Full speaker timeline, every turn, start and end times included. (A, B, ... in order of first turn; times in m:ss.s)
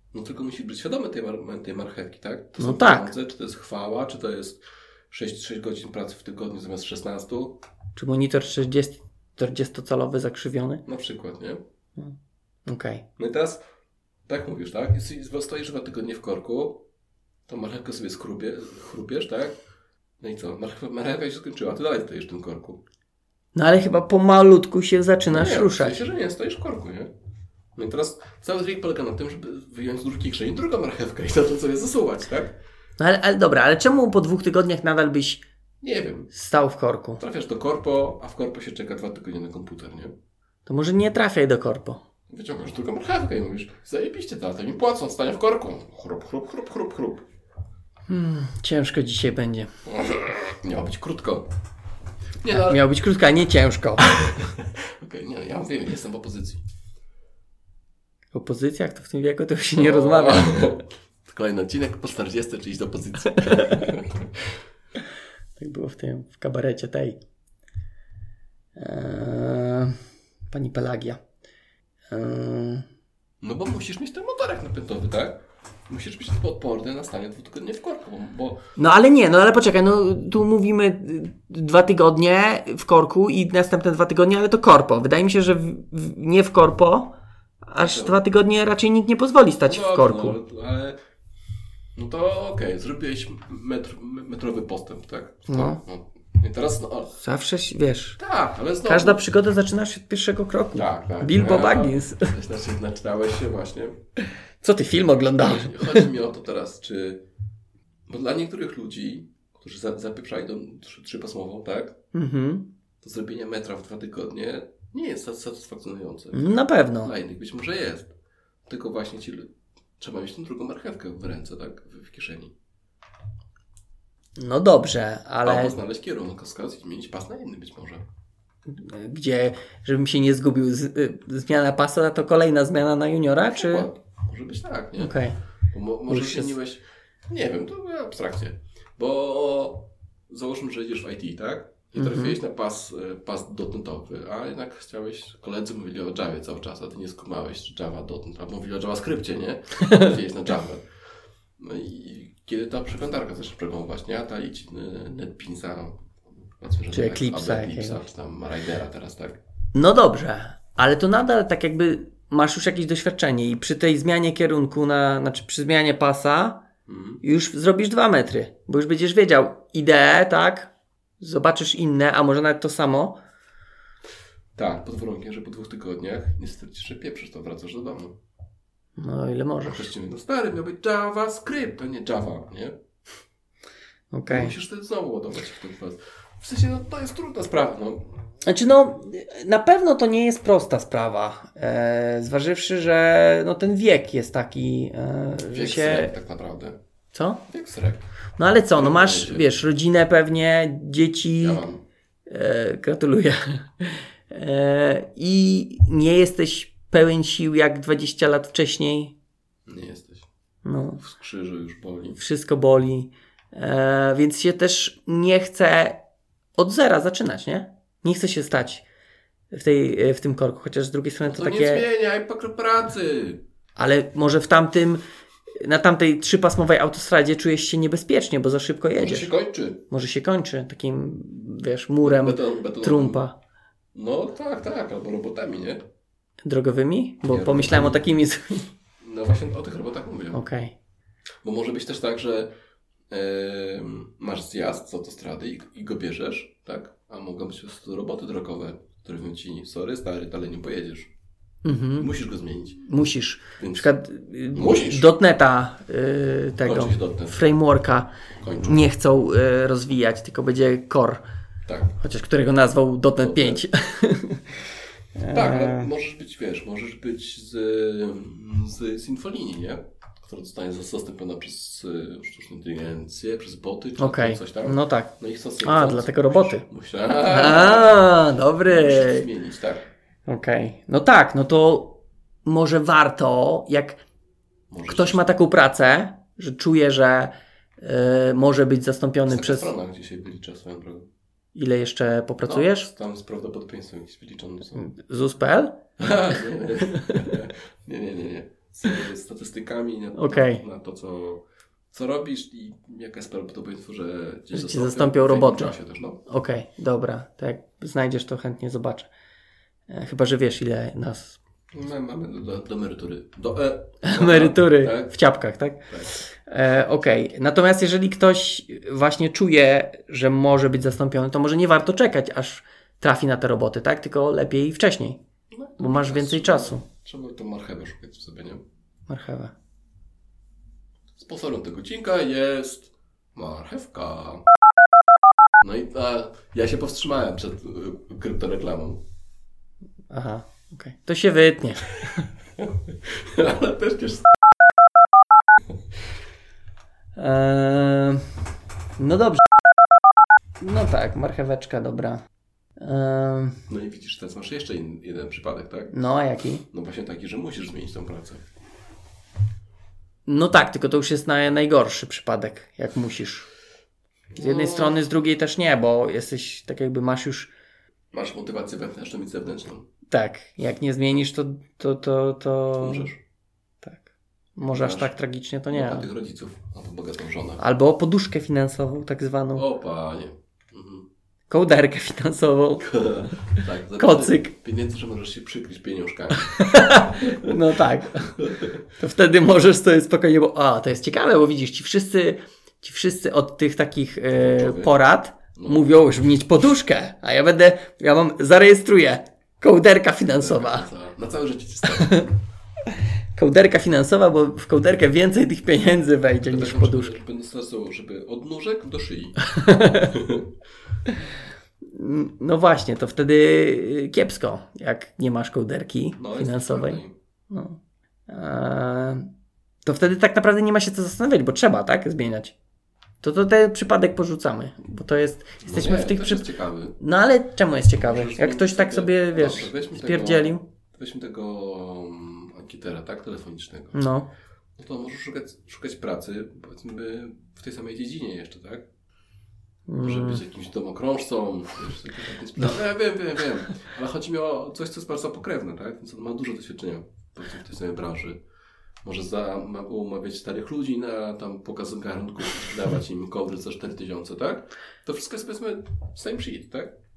0:00.1-0:07.6 A
0:02.6-0:03.1 B
0:08.0-0:10.8 B
0:10.8-0:11.6 A
0:12.6-0:13.0 B
0:13.2-0:13.6 A
0:14.3-0:16.8 A
0:17.5-0:19.6 A
0:20.2-0:22.8 A
0:23.5-0:26.0 B
0:25.3-0:27.1 A
0:27.7-0:32.6 A
0:33.0-0:35.4 B
0:35.8-0:36.3 A
0:36.3-0:37.2 B
0:37.2-0:40.1 A
0:40.6-0:42.0 B
0:42.3-0:47.2 A
0:48.1-0:49.7 B
0:49.8-0:51.5 A
0:52.4-0:52.8 A
0:52.4-0:54.1 B
0:54.0-0:56.6 A
0:58.3-1:00.8 B
0:59.8-1:04.5 A
1:03.4-1:03.9 B
1:05.6-1:07.2 B
1:08.8-1:10.0 B
1:10.5-1:11.2 B
1:12.1-1:12.8 B
1:13.4-1:18.6 A
1:18.8-1:27.1 B
1:27.6-1:30.4 B
1:27.8-1:28.2 A
1:29.6-1:31.0 A
1:31.9-1:37.1 A
1:35.5-1:35.8 B
1:37.2-1:38.2 B
1:38.2-1:39.2 A
1:38.8-1:42.3 B
1:40.7-1:44.0 A
1:44.6-1:46.1 B
1:45.4-1:47.2 A
1:48.1-1:52.0 A
1:52.1-1:52.7 B
1:53.0-1:58.1 A
1:56.3-1:57.1 B
1:58.6-2:02.5 A
2:04.4-2:05.8 B
2:05.4-2:08.0 A
2:08.7-2:13.9 B
2:13.5-2:15.2 A
2:15.0-2:15.4 B
2:15.7-2:30.8 A
2:16.1-2:16.5 B
2:22.0-2:22.4 B
2:29.8-2:30.1 B
2:31.6-2:39.4 A
2:36.9-2:38.0 B
2:39.7-2:46.6 B
2:46.9-2:47.2 A
2:47.2-2:53.2 B
2:54.5-2:58.1 A
2:59.0-2:59.9 B
2:59.6-3:02.8 A
3:04.1-3:04.5 B
3:04.3-3:08.0 A
3:08.4-3:16.1 B
3:15.5-3:16.8 A
3:17.1-3:17.4 B
3:17.5-3:18.0 A
3:18.4-3:21.6 B
3:18.7-3:19.5 A
3:21.4-3:21.8 A
3:22.3-3:29.1 B
3:29.7-3:30.2 A
3:30.6-3:31.0 B
3:31.0-3:32.2 A
3:32.2-3:36.0 B
3:36.6-3:38.8 B
3:39.5-3:41.8 B
3:41.2-3:43.4 A
3:43.8-3:45.0 B
3:45.6-3:49.3 B
3:49.0-3:49.8 A
3:49.9-3:53.4 B
3:52.0-3:53.2 A
3:53.9-3:55.8 A
3:56.4-3:58.6 B
3:57.3-3:58.0 A
3:59.0-4:00.4 A
4:00.3-4:00.7 B
4:01.4-4:02.5 A
4:03.1-4:11.1 A
4:11.6-4:12.1 B
4:11.9-4:12.9 A
4:12.8-4:21.2 B
4:13.6-4:13.9 A
4:14.5-4:15.1 A
4:16.6-4:17.5 A
4:18.4-4:18.8 A
4:21.6-4:22.0 A
4:22.0-4:24.5 B
4:23.2-4:23.6 A
4:25.2-4:25.9 B
4:25.3-4:38.1 A
4:34.0-4:39.3 B
4:38.6-4:39.9 A
4:40.3-4:44.0 B
4:44.7-4:45.4 A
4:44.8-4:49.7 B
4:49.3-4:51.1 A
4:51.5-4:52.9 B
4:52.4-4:54.8 A
4:54.8-4:55.8 B
4:56.0-5:06.2 A
4:57.0-4:57.3 B
5:00.1-5:00.6 B
5:04.5-5:05.7 B
5:06.2-5:09.1 B
5:09.9-5:11.4 B
5:11.7-5:15.2 A
5:14.0-5:25.2 B
5:15.9-5:16.1 A
5:25.5-5:28.6 A
5:25.8-5:26.8 B
5:29.1-5:29.5 B
5:31.2-5:34.4 A
5:35.6-5:39.0 A
5:40.1-5:42.3 B
5:42.6-5:44.3 A
5:47.2-5:48.2 B
5:49.0-5:49.4 B
5:50.6-5:52.2 B
5:52.8-5:53.6 B
5:53.7-5:55.9 A
5:55.9-5:56.6 B
5:56.7-5:58.4 A
6:00.2-6:03.5 B
6:04.3-6:05.0 A
6:04.4-6:07.5 B
6:08.1-6:09.8 A
6:10.1-6:13.1 B
6:12.8-6:13.2 A
6:13.8-6:16.1 B
6:14.7-6:15.1 A
6:15.7-6:17.6 A
6:17.6-6:19.6 B
6:19.5-6:21.1 A
6:21.5-6:24.5 B
6:22.8-6:27.5 A
6:26.4-6:28.4 B
6:28.4-6:28.8 A
6:29.0-6:40.9 B
6:34.4-6:34.9 A
6:35.6-6:35.9 A
6:40.4-6:42.3 A
6:41.9-6:42.3 B
6:43.3-6:47.2 B
6:46.4-6:49.4 A
6:49.4-6:50.1 B
6:49.9-6:50.5 A
6:51.9-6:59.3 B
6:56.2-6:57.1 A
6:59.8-7:02.5 B
7:03.2-7:06.5 B
7:05.6-7:07.0 A
7:07.0-7:10.6 B
7:07.9-7:14.0 A
7:13.9-7:14.3 B
7:14.8-7:18.9 A
7:19.9-7:20.4 B
7:20.0-7:28.4 A
7:29.0-7:36.9 A